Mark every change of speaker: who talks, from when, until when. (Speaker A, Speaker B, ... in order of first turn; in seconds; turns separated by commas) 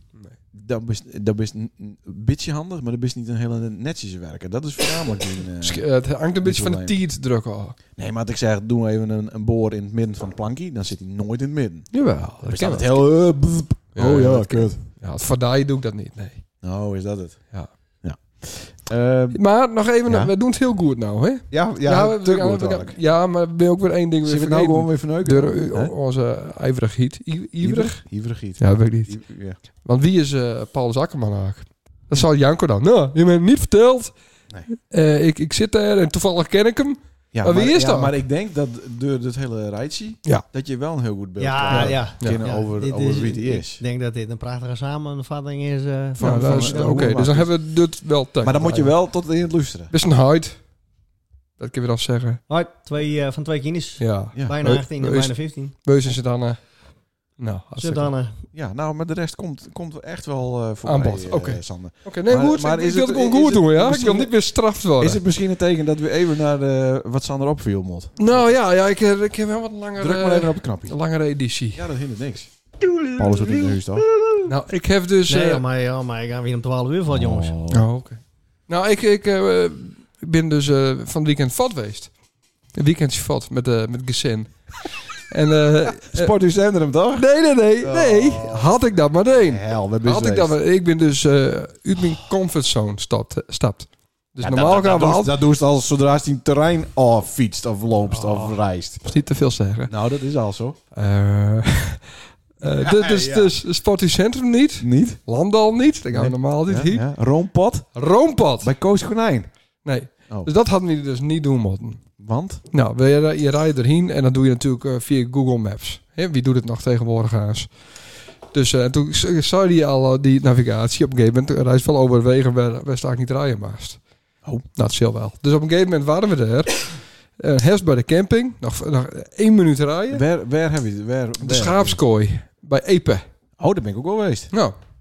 Speaker A: 0.5-5.9, Speaker B: 5.6-7.8, Speaker A: 6.4-7.0, Speaker A: 8.0-14.8, Speaker B: 11.9-12.9, Speaker B: 13.9-16.4, Speaker A: 16.6-19.4, Speaker B: 19.3-29.2, Speaker A: 20.1-20.3, Speaker A: 21.5-23.0, Speaker A: 24.2-25.9, Speaker A: 27.6-29.6, Speaker B: 29.8-34.1, Speaker B: 34.9-38.1, Speaker A: 37.3-43.8, Speaker C: 41.4-47.1, Speaker B: 41.7-42.4, Speaker A: 46.2-47.6, Speaker B: 46.2-48.9, Speaker A: 48.4-49.9, Speaker B: 49.9-50.6, Speaker B: 51.6-52.4, Speaker C: 52.5-55.7, Speaker B: 54.0-56.8, Speaker B: 57.4-58.1, Speaker C: 57.8-58.3, Speaker A: 58.5-64.4, Speaker B: 60.8-65.2, Speaker A: 65.0-68.5, Speaker B: 68.2-71.8, Speaker A: 70.0-71.0, Speaker A: 71.7-72.5, Speaker C: 72.9-73.6, Speaker A: 73.1-74.1, Speaker C: 74.2-74.5, Speaker B: 74.5-75.6, Speaker C: 75.3-77.5, Speaker A: 77.1-77.8, Speaker B: 77.7-82.1, Speaker B: 82.7-86.3, Speaker A: 86.0-87.3, Speaker B: 87.1-95.3, Speaker A: 87.8-88.7, Speaker A: 89.3-90.5, Speaker A: 94.4-99.0, Speaker B: 98.1-99.9, Speaker A: 99.9-100.8, Speaker B: 100.9-107.1, Speaker A: 102.6-103.5, Speaker A: 104.8-105.2, Speaker A: 106.1-108.0, Speaker B: 107.9-108.7, Speaker A: 108.6-109.5, Speaker B: 109.8-112.1, Speaker A: 112.2-112.6, Speaker B: 112.7-124.0, Speaker B: 124.8-130.2, Speaker A: 130.1-132.0, Speaker B: 131.4-133.2, Speaker A: 133.6-134.5